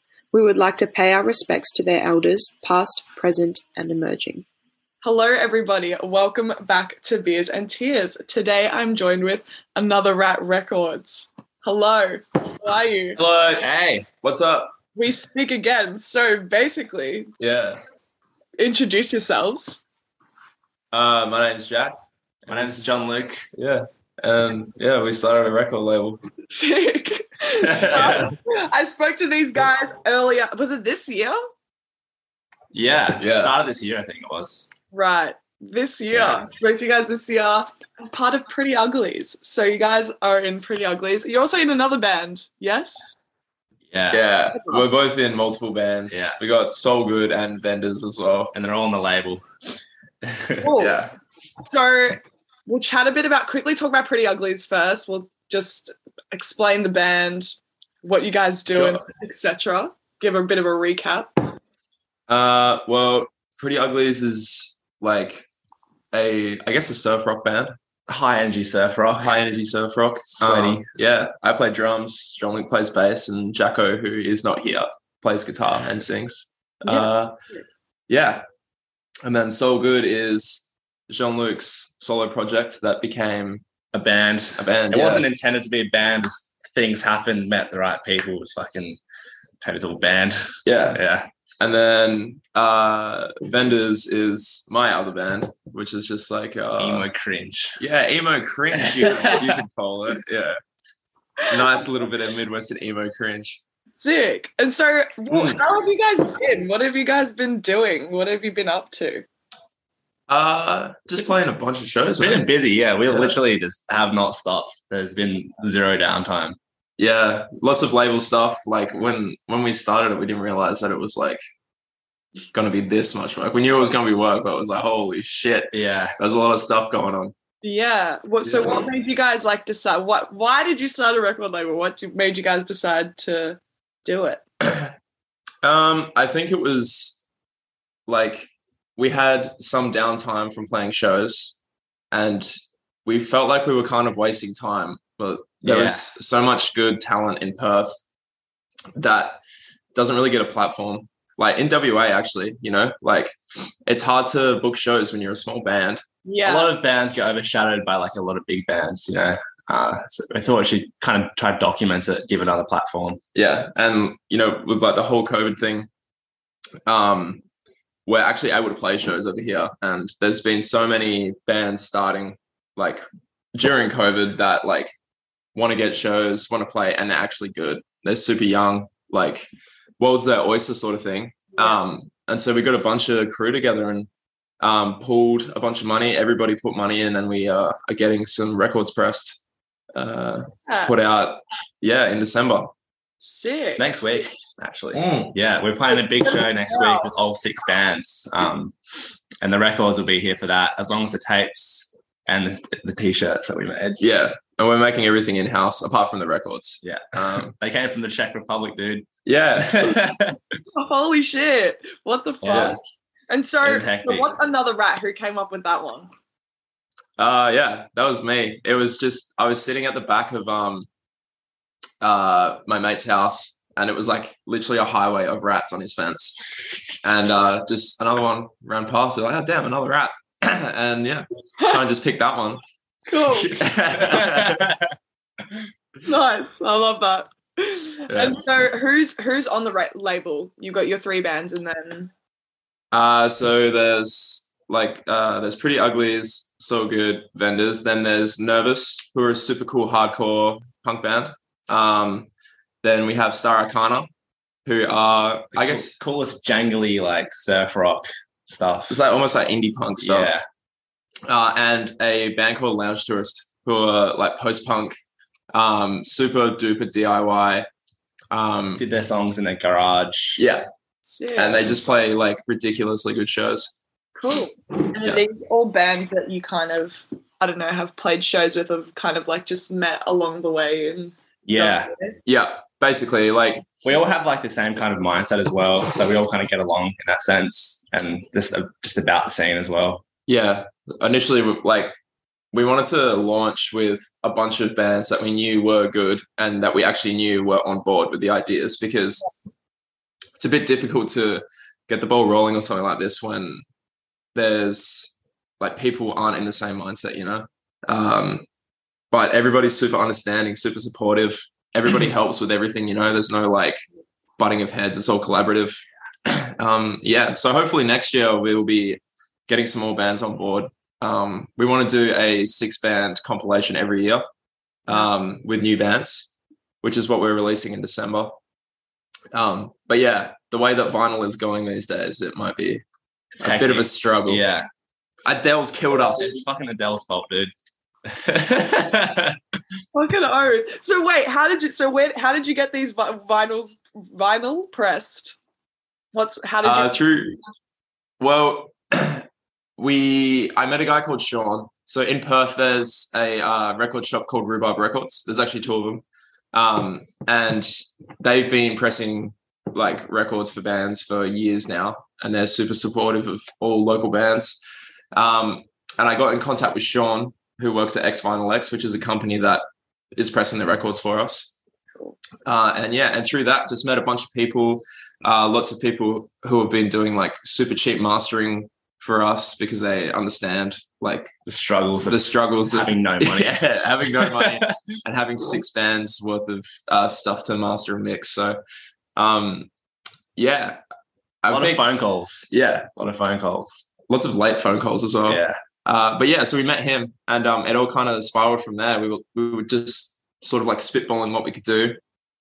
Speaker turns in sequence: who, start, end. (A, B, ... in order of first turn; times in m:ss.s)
0:00.3-0:04.4 A
0:05.0-0:13.2 B
0:13.2-0:13.7 C
0:13.6-0:14.1 D
0:14.2-0:14.7 C
0:15.0-0:17.3 B
0:17.4-0:17.8 C
0:18.6-0:19.8 B
0:20.9-0:22.0 C
0:22.5-0:22.8 C
0:22.5-0:23.5 D
0:23.6-0:26.2 C
0:26.5-0:31.4 B
0:27.7-0:28.3 D
0:27.7-0:28.3 C
0:32.7-0:34.7 D
0:33.2-0:33.5 C
0:34.9-0:43.2 B
0:36.1-0:36.5 D
0:43.9-0:44.2 D
0:44.1-0:48.5 C
0:46.1-0:46.4 D
0:48.5-0:49.4 D
0:50.2-0:50.7 D
0:50.6-0:51.0 B
0:50.8-0:51.1 C
0:51.6-1:01.5 B
0:58.7-0:59.0 C
1:02.3-1:05.5 C
1:06.1-1:07.7 C
1:08.1-1:09.4 D
1:09.2-1:17.3 C
1:10.3-1:10.9 D
1:16.9-1:17.6 B
1:18.1-1:18.4 C
1:19.2-1:23.6 C
1:23.9-1:29.0 D
1:24.6-1:25.2 C
1:29.6-1:31.3 D
1:30.7-1:31.0 C
1:31.6-1:37.1 C
1:36.8-1:37.8 D
1:37.8-1:40.6 C
1:38.7-1:39.6 D
1:41.5-1:43.6 C
1:43.9-1:49.3 B
1:50.3-1:52.5 C
1:52.0-1:56.6 D
1:53.1-1:53.4 C
1:57.0-2:01.4 C
2:02.5-2:07.3 C
2:05.7-2:06.2 D
2:07.6-2:14.4 B
2:08.4-2:08.9 C
2:15.6-2:17.2 C
2:18.1-2:21.6 C
2:22.1-2:28.0 C
2:25.6-2:26.0 D
2:29.0-2:29.4 C
2:29.9-2:33.4 C
2:33.9-2:36.0 C
2:36.2-2:36.7 B
2:36.4-2:43.2 D
2:43.4-2:45.9 C
2:46.9-2:47.4 C
2:48.1-2:53.0 C
2:53.5-2:54.9 C
2:55.6-2:59.5 C
3:00.0-3:04.1 C
3:01.6-3:01.8 B
3:04.6-3:09.4 C
3:10.0-3:12.7 C
3:10.7-3:11.0 B
3:13.2-3:14.2 B
3:13.8-3:18.8 D
3:14.9-3:15.3 C
3:15.9-3:17.1 B
3:19.4-3:24.0 D
3:24.0-3:27.5 C
3:26.8-3:30.4 D
3:29.3-3:30.2 C
3:30.8-3:36.1 B
3:32.4-3:32.8 D
3:32.5-3:32.8 C
3:33.6-3:34.3 D
3:37.2-3:40.9 C
3:42.0-3:46.4 C
3:47.0-3:52.6 C
3:53.1-3:53.6 B
3:53.4-3:54.7 C
3:53.9-3:54.9 D
3:56.1-4:02.1 B
3:58.1-3:58.4 C
4:02.9-4:12.3 C
4:12.8-4:14.1 C
4:14.7-4:15.9 C
4:15.5-4:19.0 D
4:18.9-4:20.4 C
4:20.0-4:20.4 D
4:21.3-4:25.0 C
4:25.5-4:27.7 C
4:28.3-4:28.8 C
4:28.8-4:30.4 D
4:30.4-4:30.7 C
4:31.0-4:31.8 B
4:31.4-4:33.8 C
4:34.2-4:42.2 B
4:41.5-4:41.9 D
4:42.3-4:43.6 C
4:43.8-4:50.0 D
4:50.3-4:51.9 C
4:52.5-4:59.3 C
5:00.4-5:03.6 C
5:04.4-5:08.4 C
5:09.1-5:13.8 C
5:14.4-5:24.2 C
5:24.9-5:26.3 C
5:26.8-5:28.4 C
5:29.3-5:32.8 C
5:33.4-5:34.7 D
5:33.4-5:34.4 C
5:35.2-5:36.4 C
5:36.1-5:37.5 D
5:38.0-5:39.4 D
5:39.9-5:45.4 B
5:46.1-5:47.0 B
5:46.6-5:47.4 C
5:48.2-5:49.2 C
5:49.8-6:04.6 C
6:05.1-6:09.6 C
6:10.2-6:11.6 C
6:12.4-6:21.3 C
6:21.4-6:24.7 D
6:22.1-6:28.6 C
6:29.2-6:29.7 C
6:30.4-6:30.8 C
6:31.4-6:31.8 C
6:31.5-6:33.9 D
6:32.5-6:32.9 C
6:34.1-6:42.0 C
6:35.3-6:35.6 D